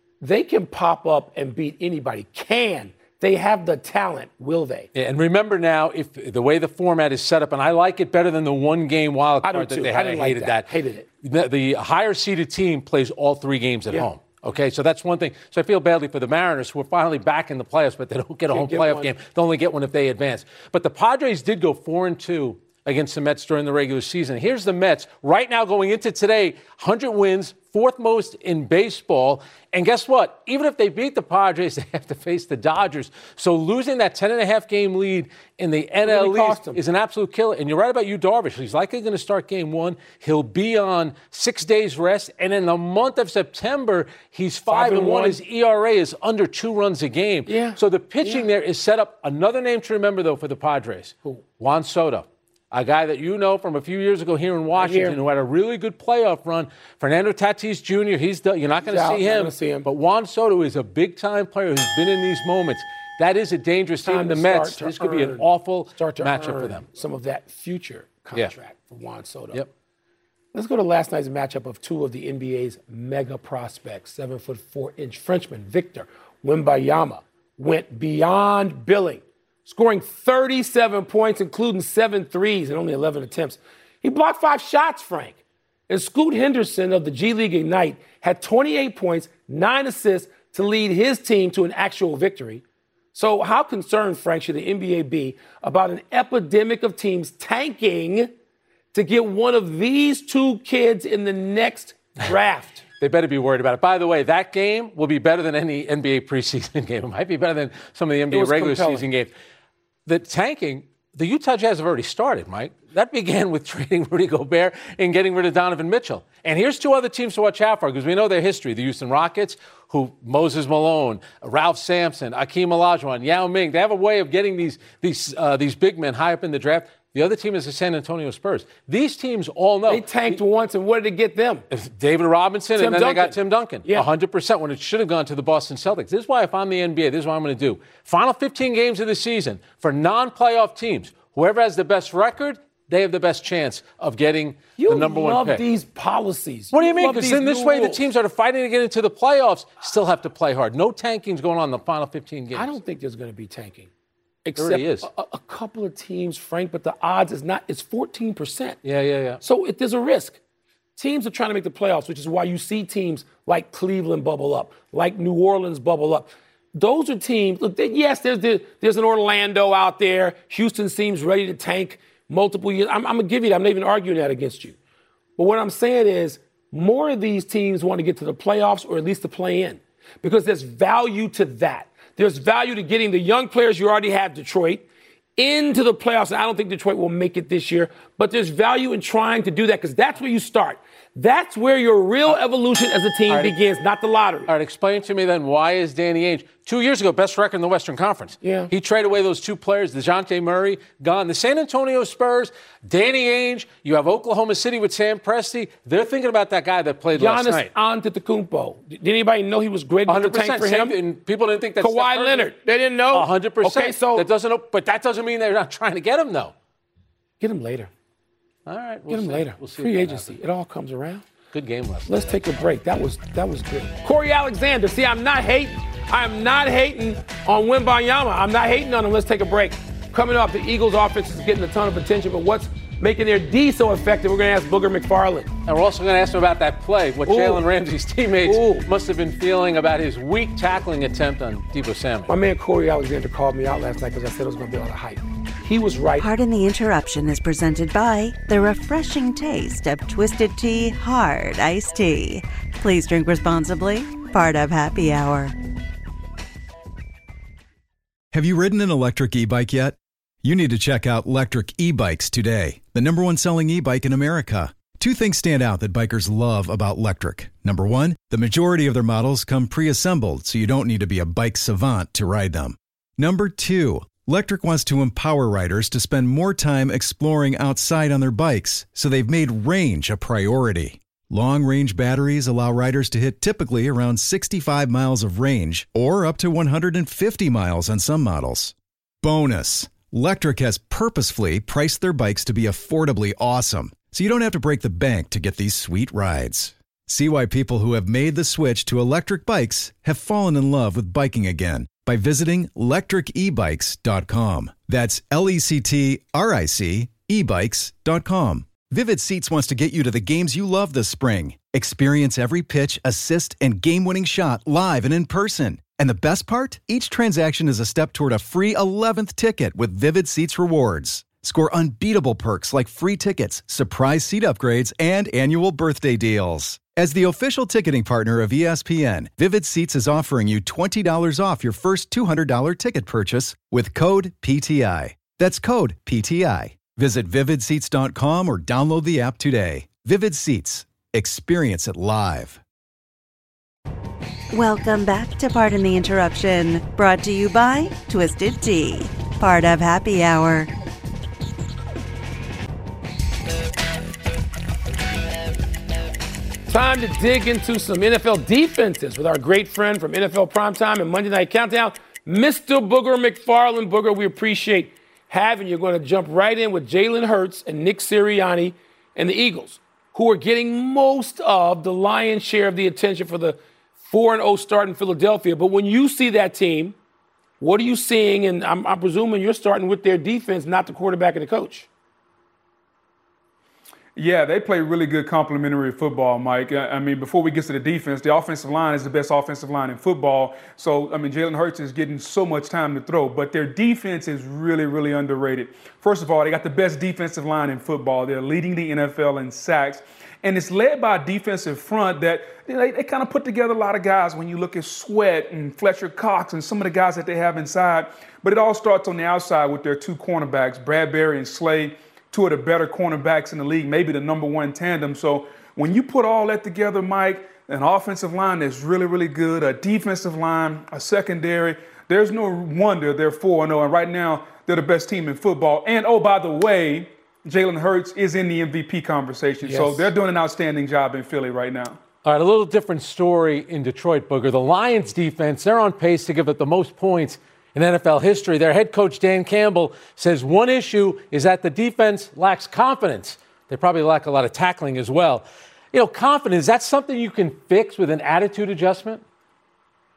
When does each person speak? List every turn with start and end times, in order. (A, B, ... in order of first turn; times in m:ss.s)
0:00.2-0:04.9 A
0:04.9-0:10.7 B
0:09.4-0:11.1 A
0:11.2-1:06.9 B
0:18.5-0:19.1 A
0:36.0-0:36.8 A
0:44.7-0:45.4 A
0:47.5-0:48.4 A
0:54.7-0:55.2 A
0:58.9-0:59.9 A
1:04.0-1:05.4 A
1:06.0-1:09.6 A
1:10.5-1:32.6 A
1:33.1-1:38.3 A
1:38.9-1:42.8 A
1:43.0-1:49.3 B
1:48.3-1:49.0 A
1:50.0-2:10.4 B
2:09.9-2:11.6 A
2:11.7-2:25.6 B
2:12.8-2:14.1 A
2:24.8-2:28.0 A
2:26.7-2:32.7 B
2:32.5-2:33.9 A
2:34.4-2:38.8 A
2:34.6-2:35.1 B
2:38.8-2:39.4 B
2:39.4-2:40.4 A
2:41.0-2:54.8 A
2:55.4-3:14.5 A
3:13.3-3:13.5 B
3:14.5-3:27.7 B
3:18.4-3:18.7 A
3:27.1-3:31.0 A
3:30.1-3:32.5 B
3:31.8-3:34.2 A
3:33.1-3:36.5 B
3:37.4-3:37.9 A
3:38.6-3:40.4 B
3:39.1-3:41.2 A
3:41.5-3:42.7 B
3:42.1-3:55.5 A
3:55.6-4:02.3 B
3:57.3-3:57.6 A
3:58.4-3:58.9 A
4:02.3-4:06.3 A
4:06.2-4:15.5 C
4:18.3-5:42.6 D
5:44.5-5:50.7 C
5:56.7-6:16.9 A
6:17.6-6:21.9 A
6:24.2-7:12.0 E
7:09.6-7:10.1 A
7:12.2-7:29.2 B